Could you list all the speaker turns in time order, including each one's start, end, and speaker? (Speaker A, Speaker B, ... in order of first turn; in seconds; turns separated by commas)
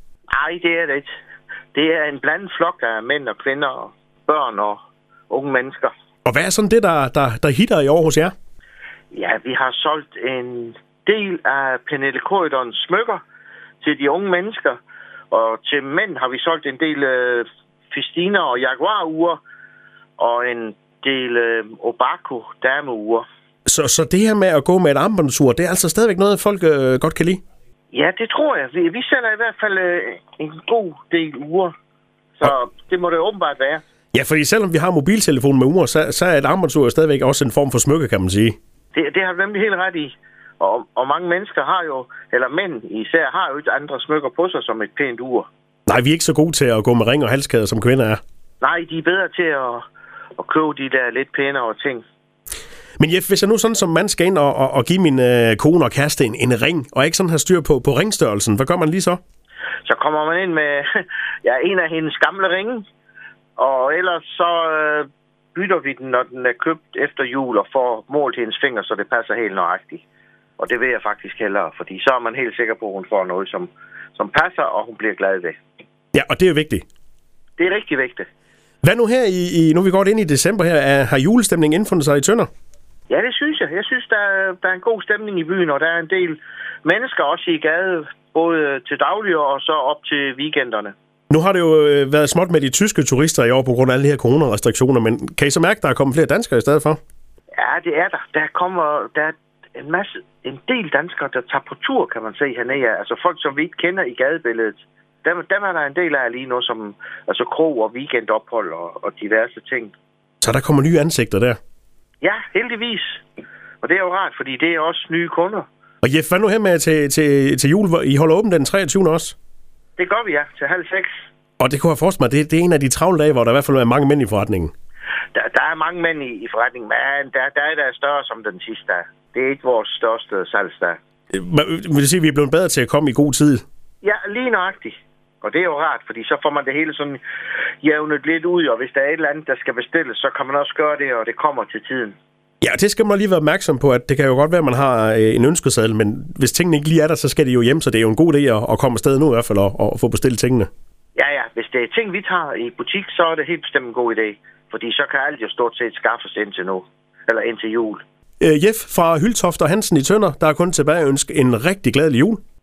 Speaker A: 0.3-1.1, Speaker A: 1.7-5.9, Speaker B: 6.2-8.3, Speaker A: 9.1-13.2, Speaker A: 13.8-14.8, Speaker A: 15.3-19.4, Speaker A: 20.2-23.2, Speaker B: 23.6-27.4, Speaker A: 27.9-31.7, Speaker A: 32.4-33.8, Speaker B: 34.1-38.5, Speaker A: 38.9-45.5, Speaker B: 45.9-48.2, Speaker A: 48.6-49.8, Speaker A: 50.4-52.0, Speaker B: 53.0-59.2, Speaker A: 59.8-62.9, Speaker A: 63.6-70.0, Speaker A: 70.6-75.6, Speaker B: 76.1-76.8, Speaker A: 77.6-78.3, Speaker B: 78.8-82.5, Speaker A: 83.1-90.9, Speaker B: 91.3-97.0, Speaker A: 97.6-109.9, Speaker B: 110.4-111.6, Speaker A: 112.2-113.2, Speaker A: 113.8-115.7, Speaker B: 116.0-119.3, Speaker A: 120.0-121.1, Speaker B: 121.6-124.7, Speaker A: 125.3-131.0, Speaker B: 131.3-133.6, Speaker A: 134.0-137.2, Speaker A: 137.8-142.2, Speaker B: 142.6-150.7, Speaker A: 151.1-158.0, Speaker B: 158.4-162.4